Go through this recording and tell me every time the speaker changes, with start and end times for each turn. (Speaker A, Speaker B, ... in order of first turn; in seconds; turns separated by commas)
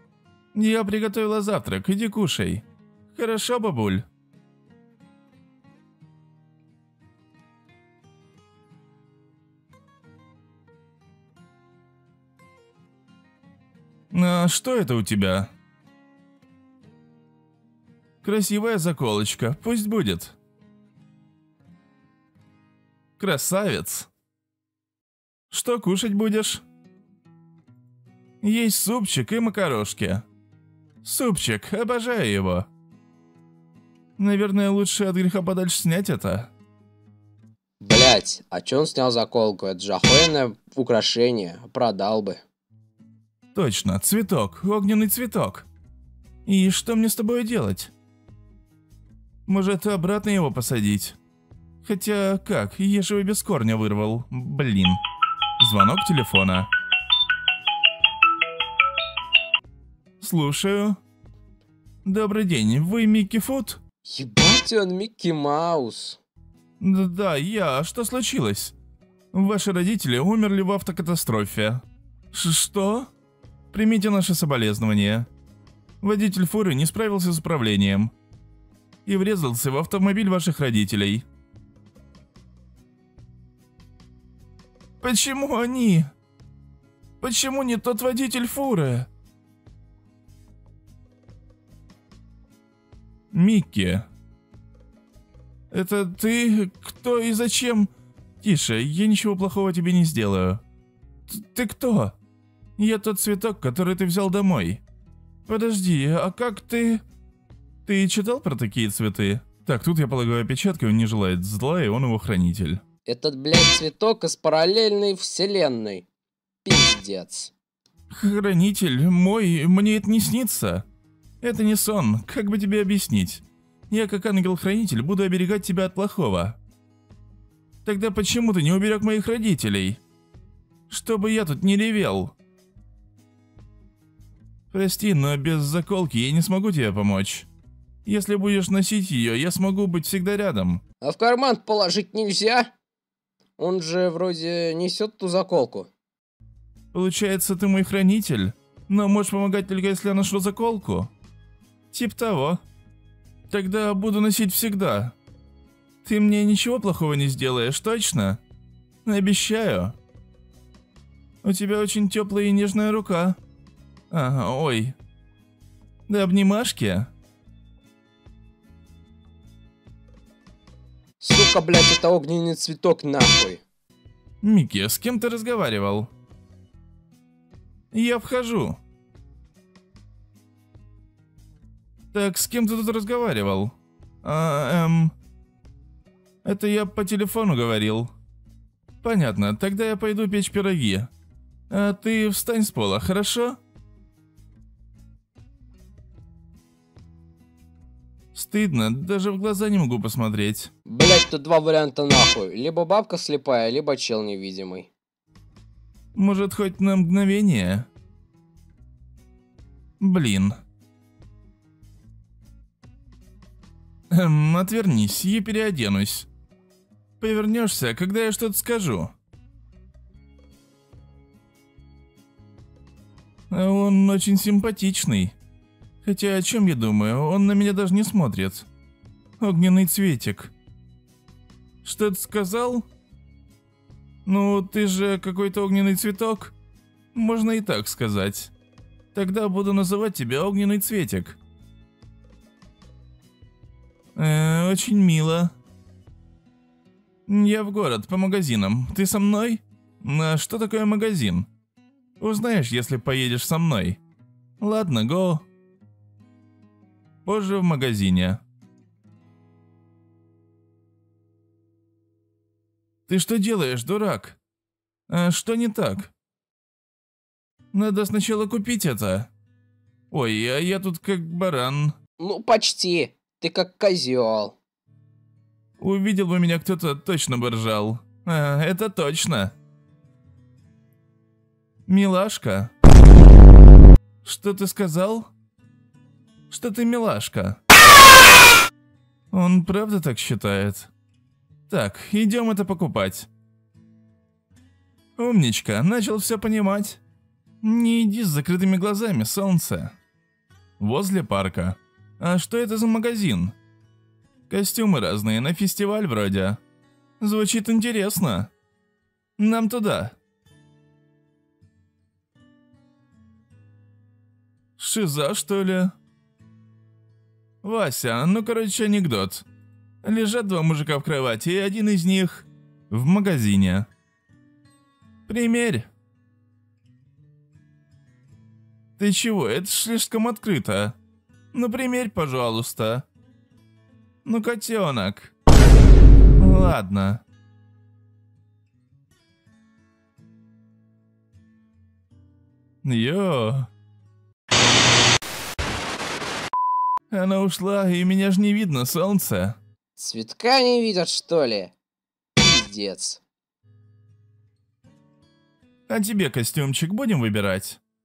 Speaker A: 0.5-4.0, Speaker A: 14.1-15.5, Speaker A: 18.2-20.4, Speaker A: 23.2-24.1, Speaker A: 25.5-26.6, Speaker A: 28.4-30.2, Speaker A: 31.0-32.7, Speaker A: 34.2-36.5, Speaker B: 37.8-42.4, Speaker A: 43.5-45.7, Speaker A: 46.5-47.9, Speaker A: 49.5-51.2, Speaker A: 51.8-55.0, Speaker A: 55.6-56.7, Speaker A: 60.2-61.0, Speaker A: 62.0-63.8, Speaker B: 64.0-66.2, Speaker A: 66.8-68.7, Speaker A: 69.3-73.1, Speaker A: 73.7-75.3, Speaker A: 76.0-78.1, Speaker A: 79.0-81.2, Speaker A: 85.0-86.1, Speaker A: 87.2-89.1, Speaker A: 93.3-94.1, Speaker A: 95.7-100.6, Speaker A: 101.3-102.2, Speaker A: 102.8-104.8, Speaker A: 105.5-107.0, Speaker A: 107.8-112.8, Speaker B: 113.0-116.1, Speaker B: 116.6-117.5, Speaker A: 118.1-120.8, Speaker A: 121.4-126.6, Speaker A: 127.8-130.0, Speaker A: 130.9-132.3, Speaker A: 134.7-137.5, Speaker A: 138.0-140.8, Speaker B: 141.0-142.7, Speaker B: 143.6-145.9, Speaker A: 146.9-151.1, Speaker A: 151.9-152.6, Speaker A: 153.5-155.1, Speaker A: 156.0-158.4, Speaker A: 159.0-159.9, Speaker A: 161.4-163.4, Speaker A: 164.1-164.9, Speaker A: 166.1-167.1, Speaker B: 171.2-173.6, Speaker A: 174.4-176.1, Speaker A: 177.9-178.8, Speaker A: 182.1-185.1, Speaker A: 186.4-188.1, Speaker A: 189.0-191.1, Speaker A: 191.7-193.6, Speaker A: 198.3-200.7, Speaker B: 200.8-204.9, Speaker A: 206.1-207.9, Speaker A: 210.0-210.6, Speaker A: 214.1-216.3, Speaker A: 217.2-219.1, Speaker A: 223.5-225.3, Speaker A: 226.0-228.7, Speaker A: 229.4-230.5, Speaker A: 231.8-232.9, Speaker A: 234.2-236.5, Speaker A: 237.1-238.5, Speaker A: 239.1-241.4, Speaker A: 244.1-245.5, Speaker A: 247.3-251.5, Speaker A: 252.2-254.0, Speaker A: 254.6-255.4, Speaker A: 257.2-258.4, Speaker A: 263.1-264.4, Speaker A: 265.1-266.1, Speaker A: 267.7-269.3, Speaker A: 270.1-271.9, Speaker B: 272.2-274.6, Speaker A: 275.8-279.5, Speaker A: 281.9-282.7, Speaker A: 284.2-285.3, Speaker A: 286.5-287.6, Speaker A: 289.3-290.9, Speaker A: 291.7-293.3, Speaker A: 295.2-297.0, Speaker A: 297.6-299.9, Speaker A: 300.8-303.5, Speaker A: 304.5-306.6, Speaker A: 307.2-308.5, Speaker A: 309.4-310.2, Speaker A: 314.8-315.9, Speaker A: 317.6-319.4, Speaker A: 320.0-323.9, Speaker A: 325.3-325.9, Speaker A: 329.0-331.0, Speaker A: 331.5-333.1, Speaker A: 334.2-335.3, Speaker A: 336.4-337.2, Speaker A: 342.8-343.7, Speaker A: 347.1-349.6, Speaker B: 350.0-351.7, Speaker B: 352.4-353.2, Speaker A: 355.9-357.8